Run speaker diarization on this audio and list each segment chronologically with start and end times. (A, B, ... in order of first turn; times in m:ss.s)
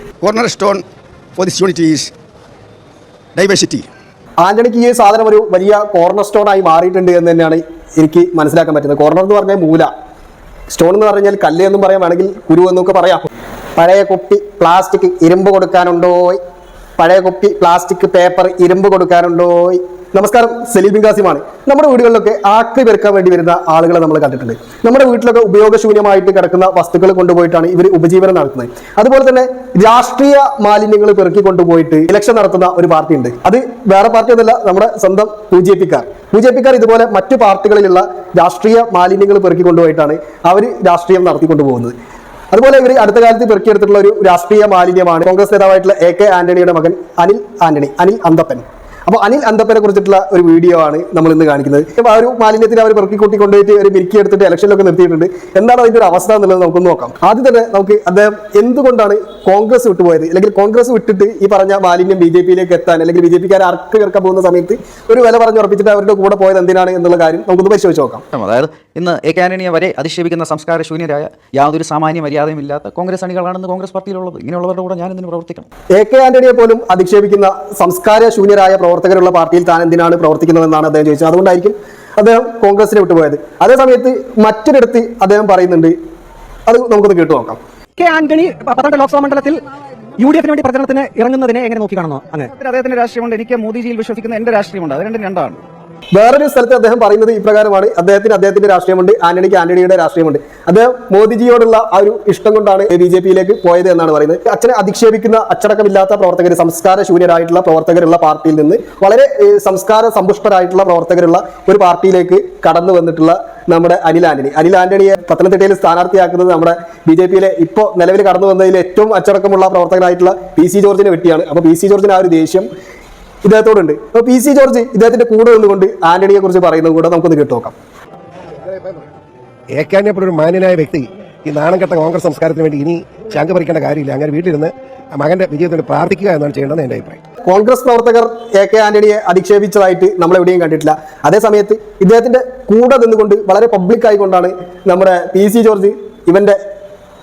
0:00.2-0:00.8 A
0:01.4-0:02.1 A
0:03.4-0:03.9 A
0:04.4-0:09.9 B
0:10.7-0:16.4 B
0:17.0-0:41.9 B
0:42.5-1:08.2 B
1:08.3-1:15.7 C
1:16.0-1:26.0 B
1:26.7-1:27.6 B
1:28.0-1:29.6 D
1:30.2-1:32.5 D
1:32.5-1:35.6 C
1:36.1-2:02.7 B
2:03.4-2:07.7 B
2:08.6-2:09.1 E
2:09.7-2:17.2 E
2:17.4-2:26.6 B